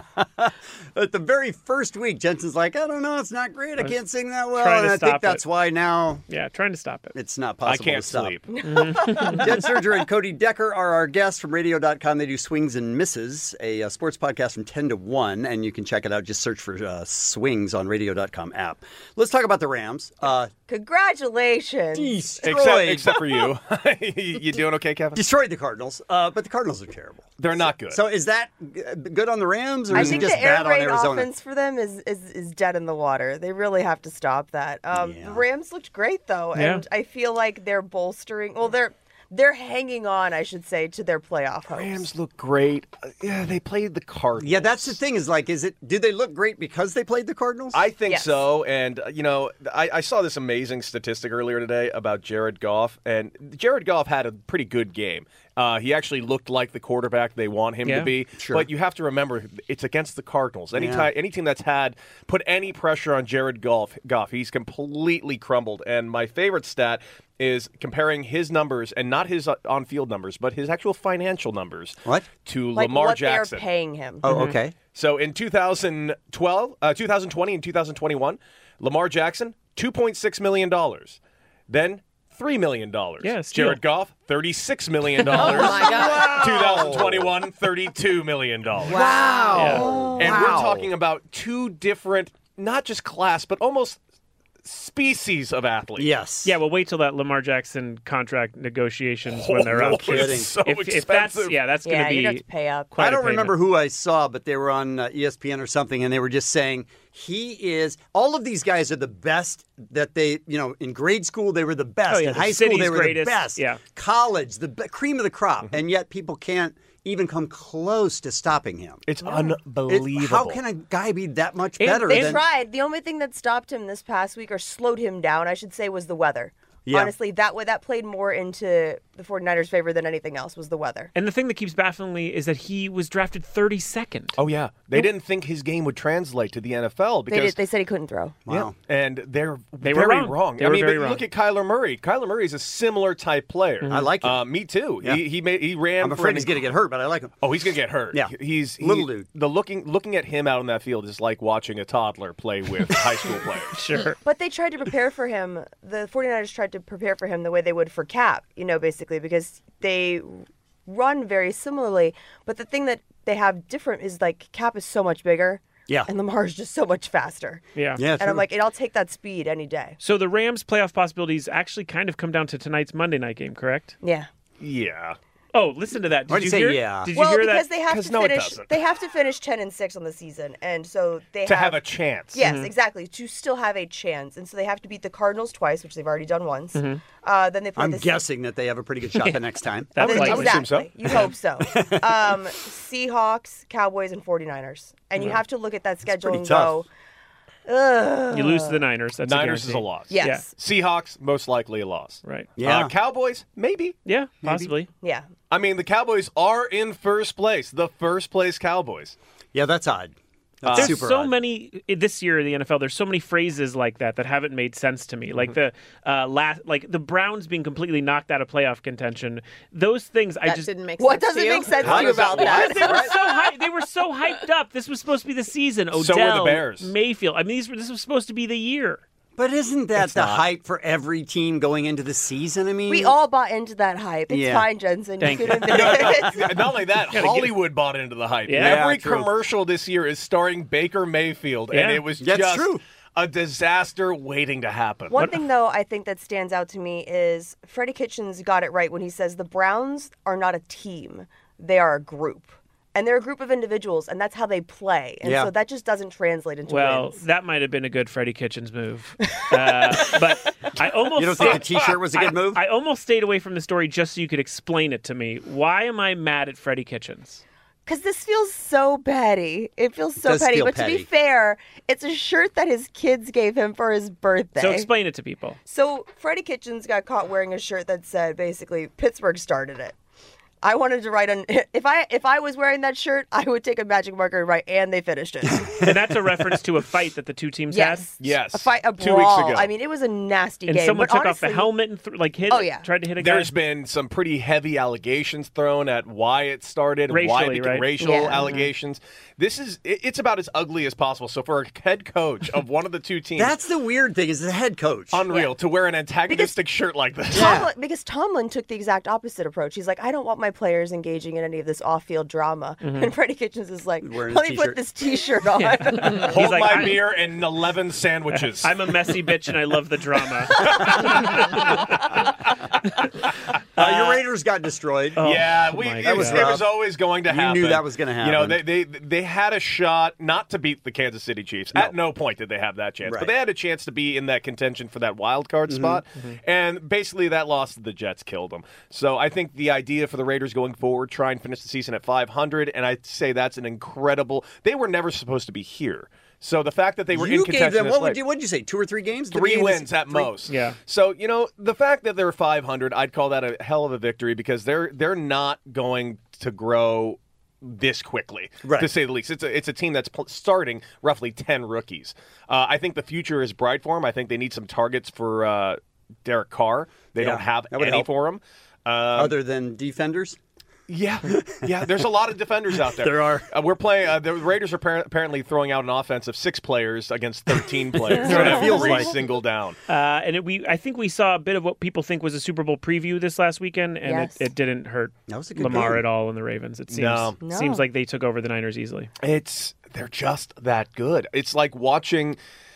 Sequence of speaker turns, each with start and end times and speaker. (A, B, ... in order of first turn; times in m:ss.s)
0:00.2-0:06.2 A
0:04.5-0:05.4 B
0:06.3-0:07.1 B
0:07.1-0:08.4 A
0:07.6-0:08.5 C
0:08.5-0:08.8 D
0:08.6-0:09.5 B
0:09.2-0:20.5 A
0:20.7-0:22.1 D
0:21.9-0:23.4 A
0:22.4-0:25.2 C
0:25.1-0:31.3 A
0:27.4-0:28.0 C
0:29.9-0:42.0 D
0:30.0-0:30.3 C
0:34.9-0:35.4 A
0:36.5-0:36.8 B
0:41.7-0:45.0 C
0:44.4-0:47.8 A
0:47.7-1:13.6 C
0:48.0-0:48.4 D
0:58.4-0:58.7 A
1:00.7-1:01.1 A
1:12.7-1:14.2 D
1:14.2-1:14.7 A
1:14.2-1:14.6 B
1:14.9-1:29.0 C
1:23.2-1:23.8 B
1:25.3-1:26.7 E
1:25.8-1:27.3 A
1:28.8-1:30.9 A
1:28.9-1:29.9 E
1:29.5-1:29.8 B
1:30.2-1:34.0 C
1:34.6-1:36.1 C
1:36.0-1:36.5 A
1:36.4-1:43.6 B
1:39.3-1:41.6 C
1:39.6-1:40.5 A
1:41.8-1:42.9 D
1:43.0-1:59.3 A
1:52.1-1:53.8 B
1:59.0-2:00.6 C
1:59.9-2:02.4 A
2:01.8-2:02.4 B
2:02.1-2:11.1 D
2:06.8-2:07.1 A
2:11.1-2:14.4 B
2:14.4-2:17.6 C
2:17.3-2:18.4 D
2:18.4-2:18.7 A
2:18.5-2:26.6 C
2:19.8-2:21.2 B
2:23.9-2:24.4 A
2:26.0-2:27.4 A
2:27.4-2:33.8 C
2:28.1-2:29.3 A
2:33.8-2:34.2 B
2:34.2-2:47.6 D
2:47.7-2:48.0 B
2:48.0-2:48.4 A
2:48.2-2:50.0 D
2:50.0-2:53.9 B
2:54.0-2:54.3 D
2:54.6-2:55.2 C
2:55.5-2:57.7 B
2:56.3-2:57.1 A
2:57.1-3:08.2 D
2:57.9-2:58.7 C
3:01.4-3:02.4 C
3:02.4-3:02.7 B
3:06.8-3:07.0 B
3:07.8-3:10.0 A
3:10.0-3:10.8 B
3:10.0-3:11.2 C
3:10.0-3:16.8 D
3:16.0-3:16.8 A
3:17.7-3:18.7 D
3:18.3-3:20.4 B
3:19.2-3:24.0 C
3:20.1-3:20.5 D
3:22.6-3:22.9 A
3:24.0-3:24.9 B
3:24.4-3:24.7 A
3:25.0-3:25.3 D
3:25.5-3:29.2 C
3:29.5-3:31.3 A
3:30.6-3:31.0 C
3:30.7-3:40.7 B
3:40.4-3:42.4 E
3:41.0-3:43.0 D
3:41.8-3:43.1 C
3:41.8-3:43.0 A
3:42.4-3:49.0 B
3:45.9-3:46.9 C
3:49.4-3:53.1 A
3:50.0-3:50.4 C
3:52.9-3:56.4 D
3:54.3-3:54.6 A
3:55.2-3:56.1 B
3:55.6-4:05.2 C
3:57.1-3:57.6 B
3:58.5-3:58.9 B
3:58.5-3:59.3 A
4:01.7-4:02.0 B
4:02.2-4:02.8 A
4:05.1-4:17.2 D
4:05.1-4:05.4 B
4:15.2-4:15.5 A
4:16.6-4:27.4 B
4:21.1-4:22.6 A
4:27.9-4:34.9 D
4:30.2-4:31.1 A
4:34.6-4:35.6 B
4:35.7-4:39.9 D
4:40.6-4:45.6 D
4:45.8-4:48.1 B
4:47.7-4:51.7 D
4:48.2-4:49.7 C
4:50.6-4:53.5 B
4:52.5-4:52.8 D
4:53.2-5:03.6 C
4:57.1-4:58.6 B
4:58.0-4:58.5 D
5:03.4-5:05.2 A
5:05.1-5:07.6 C
5:06.3-5:06.6 D
5:07.3-5:07.7 A
5:07.3-5:16.2 D
5:12.8-5:13.1 B
5:14.0-5:14.8 A
5:15.4-5:17.1 B
5:16.2-5:18.7 C
5:18.3-5:21.8 B
5:23.8-5:28.6 A
5:23.8-5:24.2 B
5:25.2-5:26.4 B
5:25.2-5:48.2 C
5:33.0-5:33.3 A
5:35.7-5:36.0 A
5:47.1-5:50.3 A
5:49.3-6:09.4 C
5:50.5-5:50.8 B
5:58.6-5:58.9 A
6:07.2-6:08.1 A
6:09.1-6:10.4 A
6:10.9-6:19.8 C
6:11.5-6:12.0 A
6:12.7-6:13.5 A
6:17.9-6:19.2 A
6:18.2-6:18.9 D
6:18.3-6:19.0 B
6:19.9-6:29.1 B
6:24.0-6:24.4 D
6:25.3-6:26.0 A
6:26.9-6:27.4 C
6:27.4-6:27.8 D
6:29.2-6:32.4 C